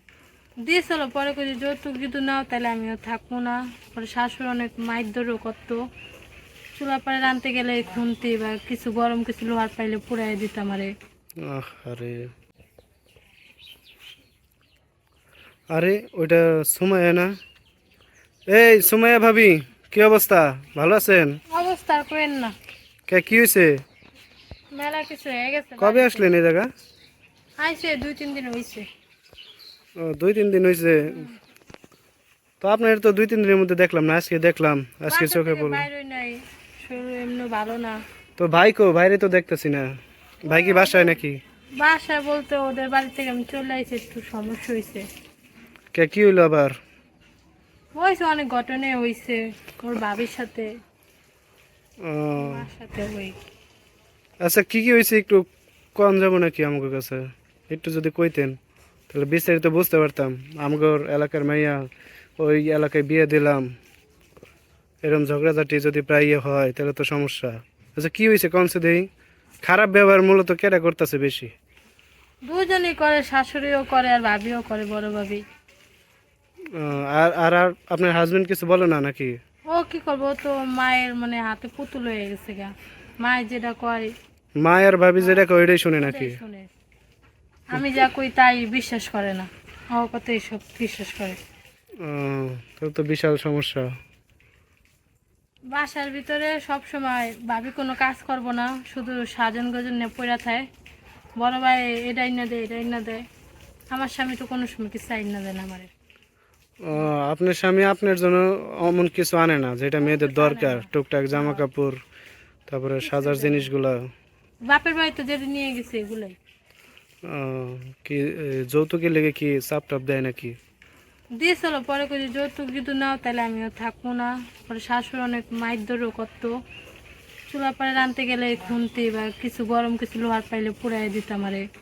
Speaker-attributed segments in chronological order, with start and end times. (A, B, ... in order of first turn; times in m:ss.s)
0:00.6-0:05.8 A
0:06.7-0:10.9 A
0:11.4-0:12.2 B
0:15.7-0:17.3 B
0:18.5-0:21.4 B
0:21.5-0:22.5 A
0:23.1-0:23.8 B
0:24.7-0:26.3 A
0:25.8-0:26.7 B
0:27.6-0:28.8 A
0:30.0-0:31.2 B
0:32.6-0:35.8 B
0:35.1-0:38.0 A
0:38.4-0:39.9 B
0:40.4-0:41.4 B
0:40.5-0:41.2 A
0:41.8-0:45.0 A
0:45.9-0:46.7 B
0:48.0-0:50.7 A
0:52.0-0:52.6 B
0:52.4-0:53.4 A
0:54.4-0:58.6 B
0:59.1-1:01.8 B
1:02.4-1:03.6 B
1:05.0-1:09.1 B
1:09.6-1:11.5 B
1:12.4-1:15.4 A
1:16.8-1:19.4 B
1:19.7-1:24.1 A
1:24.6-1:26.4 B
1:26.0-1:26.7 A
1:27.7-1:31.4 A
1:32.0-1:33.9 B
1:35.7-1:40.6 A
1:41.4-1:43.2 A
1:43.9-1:45.9 A
1:46.8-1:52.0 B
1:50.0-1:50.9 A
1:52.7-1:54.0 B
1:53.0-1:53.7 A
1:54.7-1:56.4 A
1:57.2-2:00.6 B
2:01.4-2:06.5 A
2:07.5-2:11.6 A